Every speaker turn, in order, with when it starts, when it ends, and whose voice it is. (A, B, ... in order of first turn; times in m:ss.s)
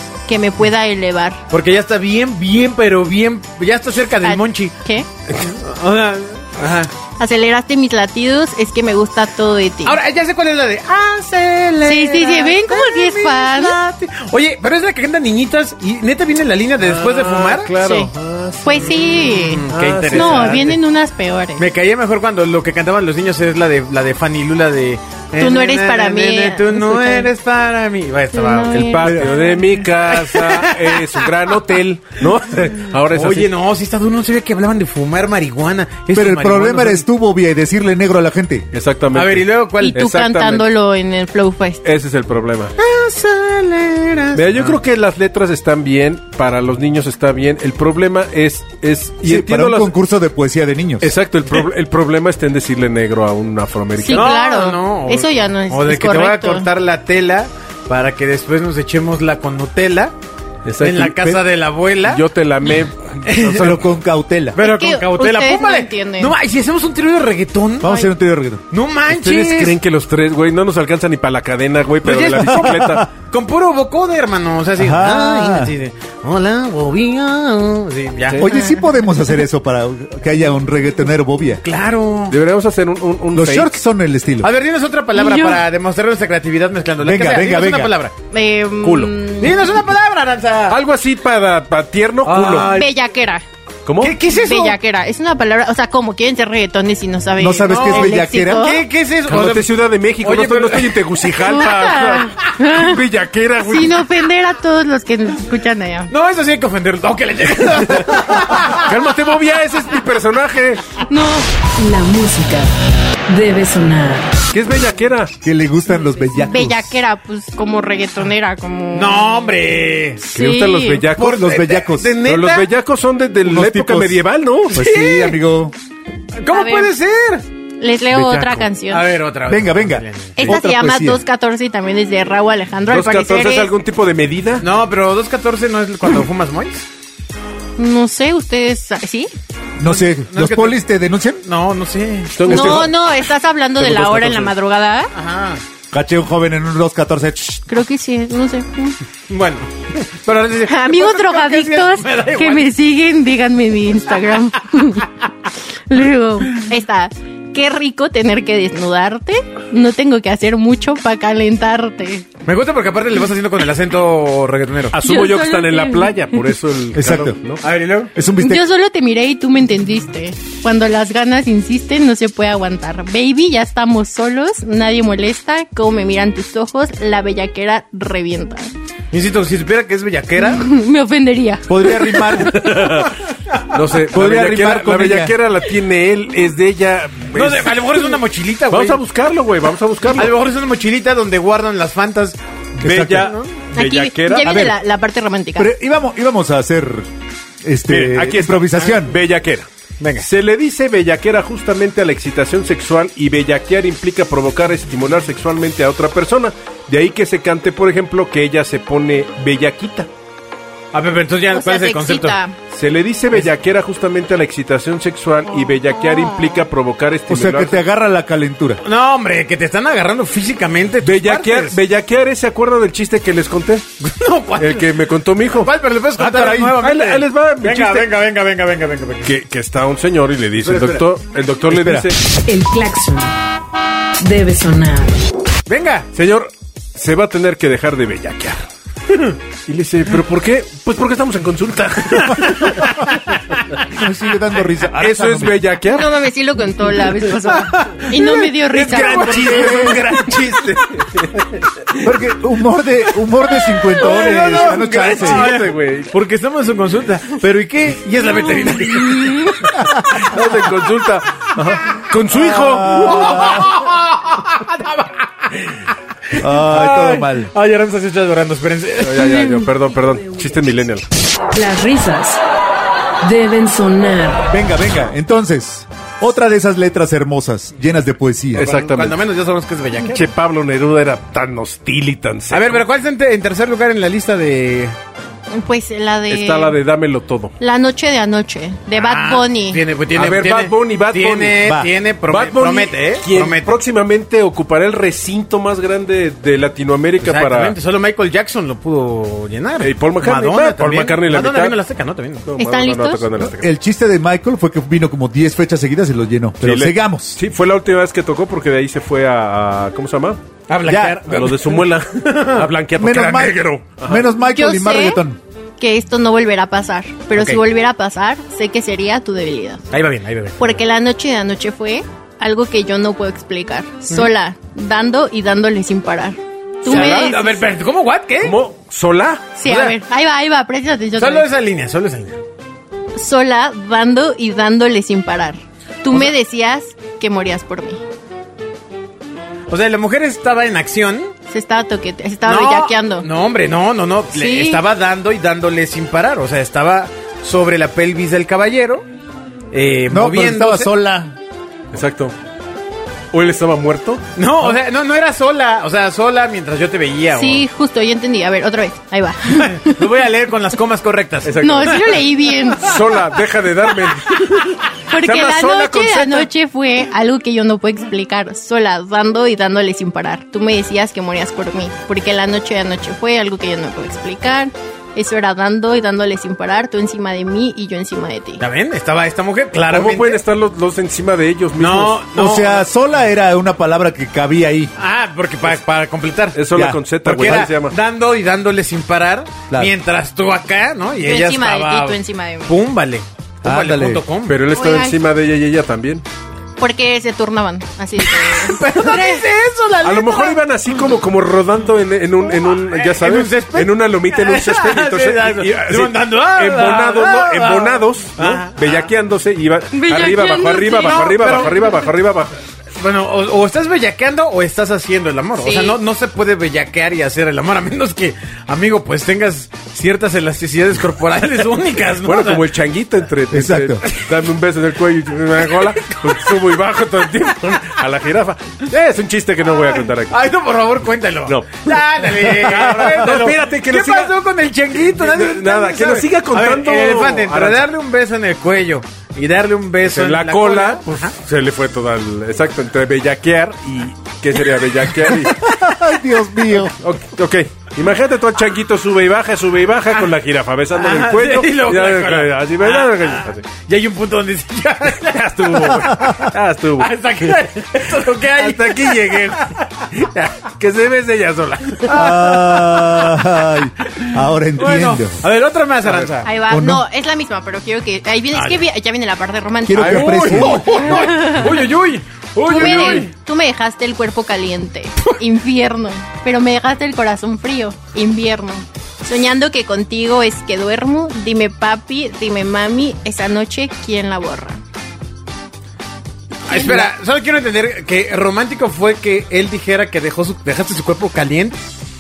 0:00.3-0:01.4 A
0:01.5-0:04.7 B
0:04.2-0:05.1 A
0:05.3-0:06.9 B
0:07.2-0:10.0 A
0:09.8-0:17.7 B
0:11.8-0:13.8 A
0:16.8-0:19.1 C
0:17.8-0:18.1 A
0:18.6-0:21.7 A
0:18.8-0:20.8 B
0:19.7-0:20.8 C
0:21.6-0:28.9 B
0:25.4-0:27.3 A
0:28.3-0:29.6 A
0:28.7-0:33.5 C
0:30.0-0:31.1 B
0:33.1-0:37.0 B
0:36.1-0:38.7 D
0:38.7-0:40.7 C
0:39.1-0:40.0 B
0:39.8-0:41.8 A
0:41.8-0:42.8 C
0:42.8-0:44.8 B
0:44.3-0:49.9 C
0:49.2-0:51.1 D
0:51.0-0:54.4 C
0:54.0-0:56.7 A
0:54.1-1:00.2 B
1:00.6-1:01.4 C
1:00.8-1:02.2 B
1:02.0-1:03.8 C
1:03.3-1:03.7 B
1:03.5-1:04.6 D
1:04.6-1:08.1 B
1:04.6-1:06.4 A
1:07.8-1:08.6 D
1:08.7-1:09.8 B
1:09.1-1:13.1 C
1:12.0-1:18.5 B
1:12.6-1:13.1 D
1:14.8-1:15.7 D
1:18.4-1:21.6 D
1:18.5-1:18.9 A
1:21.6-1:22.4 B
1:22.3-1:23.7 C
1:23.3-1:24.5 D
1:24.4-1:28.1 B
1:25.1-1:25.6 A
1:27.0-1:27.9 D
1:28.3-1:29.7 A
1:28.8-1:29.1 C
1:29.4-1:30.8 B
1:30.7-1:32.8 C
1:32.2-1:32.9 B
1:32.7-1:33.4 A
1:33.8-1:34.2 C
1:34.0-1:34.8 B
1:34.3-1:38.8 A
1:37.4-1:38.7 D
1:37.7-1:41.2 B
1:39.3-1:44.0 C
1:41.4-1:43.0 A
1:43.6-1:46.1 A
1:46.1-1:48.9 B
1:48.7-1:50.8 C
1:51.1-1:51.5 A
1:51.8-1:52.7 E
1:53.3-1:54.4 E
1:54.5-1:55.3 C
1:55.4-1:57.0 D
1:56.4-1:59.5 A
1:58.9-2:00.2 B
2:00.2-2:01.0 A
2:00.3-2:01.5 C
2:01.2-2:02.7 B
2:01.2-2:02.2 D
2:02.2-2:04.8 C
2:03.4-2:04.2 D
2:04.7-2:05.7 D
2:04.7-2:05.4 B
2:06.4-2:07.4 B
2:06.5-2:06.9 A
2:07.8-2:09.1 A
2:08.1-2:08.7 C
2:08.9-2:10.5 B
2:09.5-2:11.2 D
2:10.4-2:13.7 A
2:12.9-2:14.7 C
2:14.6-2:16.9 B
2:17.8-2:19.3 A
2:19.8-2:21.4 D
2:19.8-2:20.8 B
2:21.4-2:22.8 B
2:22.4-2:23.0 C
2:22.5-2:25.1 A
2:23.8-2:24.5 C
2:25.1-2:25.6 B
2:25.9-2:27.6 D
2:27.7-2:29.0 A
2:29.3-2:32.7 B
2:30.7-2:35.1 A
2:35.9-2:42.3 A
2:42.5-2:45.0 B
2:44.9-2:47.6 C
2:45.0-2:46.4 A
2:46.9-2:47.4 D
2:47.6-2:48.1 B
2:48.1-2:48.6 D
2:48.4-2:58.7 A
2:59.1-3:00.7 B
3:00.4-3:02.3 A
3:01.7-3:02.8 D
3:02.4-3:03.2 C
3:03.7-3:10.4 C
3:04.1-3:05.4 D
3:07.4-3:09.0 B
3:10.2-3:12.4 B
3:12.8-3:14.7 C
3:12.8-3:13.3 D
3:13.2-3:13.5 B
3:13.7-3:15.7 A
3:14.4-3:14.8 D
3:15.6-3:17.1 D
3:17.6-3:19.2 D
3:17.9-3:19.7 C
3:20.0-3:20.3 B
3:20.2-3:30.1 C
3:30.9-3:32.4 B
3:31.5-3:32.6 A
3:32.7-3:37.8 C
3:37.3-3:38.8 D
3:38.8-3:41.8 B
3:41.0-3:43.9 C
3:44.0-3:44.9 B
3:44.6-3:45.7 C
3:45.6-3:49.3 B
3:46.2-3:46.8 D
3:46.8-3:48.1 C
3:49.2-3:52.2 C
3:50.6-3:51.0 B
3:51.7-3:52.1 D
3:52.5-3:53.3 E
3:54.2-3:55.2 E
3:55.7-3:56.1 B
3:56.1-3:58.7 C
3:59.7-4:03.0 C
4:02.3-4:02.9 B
4:03.9-4:05.6 D
4:05.0-4:06.1 C
4:05.9-4:09.6 A
4:07.5-4:10.7 B
4:08.8-4:11.5 C
4:09.2-4:10.0 D
4:12.0-4:15.5 D
4:13.9-4:20.3 B
4:14.0-4:16.1 C
4:19.2-4:19.5 A
4:20.1-4:23.7 C
4:22.5-4:23.7 D
4:22.8-4:25.8 B
4:26.4-4:27.5 D
4:26.4-4:29.6 B
4:29.0-4:31.1 C
4:31.5-4:32.4 E
4:33.2-4:34.5 E
4:34.5-4:38.7 D
4:38.6-4:39.2 C
4:38.6-4:40.3 B
4:40.1-4:42.9 C
4:42.5-4:45.0 B
4:45.5-4:46.8 A
4:46.3-4:47.6 C
4:47.6-4:49.8 A
4:48.9-4:53.7 B
4:50.1-4:57.8 C
4:51.6-4:51.9 D
4:57.2-5:02.5 B
4:59.8-5:01.8 C
5:02.5-5:03.7 C
5:02.6-5:03.3 A
5:03.4-5:07.4 D
5:06.6-5:10.4 C
5:10.7-5:12.7 B
5:10.9-5:11.2 D
5:11.3-5:14.2 C
5:13.0-5:15.4 D
5:14.4-5:15.2 A
5:15.8-5:19.8 A
5:17.4-5:17.6 B
5:19.9-5:20.7 B
5:20.6-5:27.6 A
5:26.8-5:28.6 B
5:26.9-5:27.3 C
5:28.4-5:29.5 C
5:29.6-5:31.5 A
5:29.6-5:30.0 B
5:31.2-5:32.4 B
5:33.2-5:38.0 A
5:39.7-5:41.3 B
5:41.5-5:43.3 A
5:42.4-5:49.1 B
5:44.3-5:44.8 A
5:49.7-5:50.9 B
5:50.1-5:51.4 D
5:51.9-5:52.3 C
5:53.3-5:54.2 C
5:54.4-5:57.6 B
5:57.3-6:00.1 A
5:59.6-6:02.2 B
6:01.4-6:02.2 C
6:01.6-6:03.0 A
6:02.8-6:06.5 C
6:05.1-6:18.6 A
6:18.6-6:20.4 B
6:19.9-6:22.2 C
6:21.8-6:22.9 B
6:22.3-6:24.9 D
6:25.0-6:26.6 B
6:26.6-6:28.0 C
6:26.7-6:27.7 D
6:27.2-6:34.6 B
6:31.2-6:32.8 A
6:33.6-6:34.2 D
6:34.5-6:36.2 C
6:34.7-6:35.2 A
6:36.8-6:39.4 A
6:38.3-6:40.6 B
6:40.0-6:52.5 C
6:42.6-6:49.1 B
6:49.9-6:51.6 A
6:51.0-6:52.0 B
6:53.0-7:02.7 B
6:55.6-6:56.0 A
7:02.2-7:10.4 C
7:03.5-7:04.0 D
7:10.3-7:21.3 B
7:11.5-7:14.4 C
7:15.0-7:17.9 C
7:20.0-7:25.7 C
7:25.4-7:27.0 D
7:26.9-7:33.7 C
7:31.0-7:36.5 B
7:35.3-7:37.1 C
7:37.0-7:40.5 B
7:38.5-7:39.8 C
7:40.5-7:42.2 C
7:42.1-7:43.5 B
7:42.1-7:45.5 D
7:44.8-7:46.5 B
7:46.0-7:46.3 C
7:46.4-7:51.9 A
7:46.7-7:47.0 D
7:48.5-7:48.8 B
7:49.9-7:51.0 D
7:50.0-7:51.2 C
7:50.0-7:53.3 B
7:52.6-8:04.8 A
7:52.7-7:53.2 C
8:06.7-8:11.9 B
8:06.7-8:07.1 A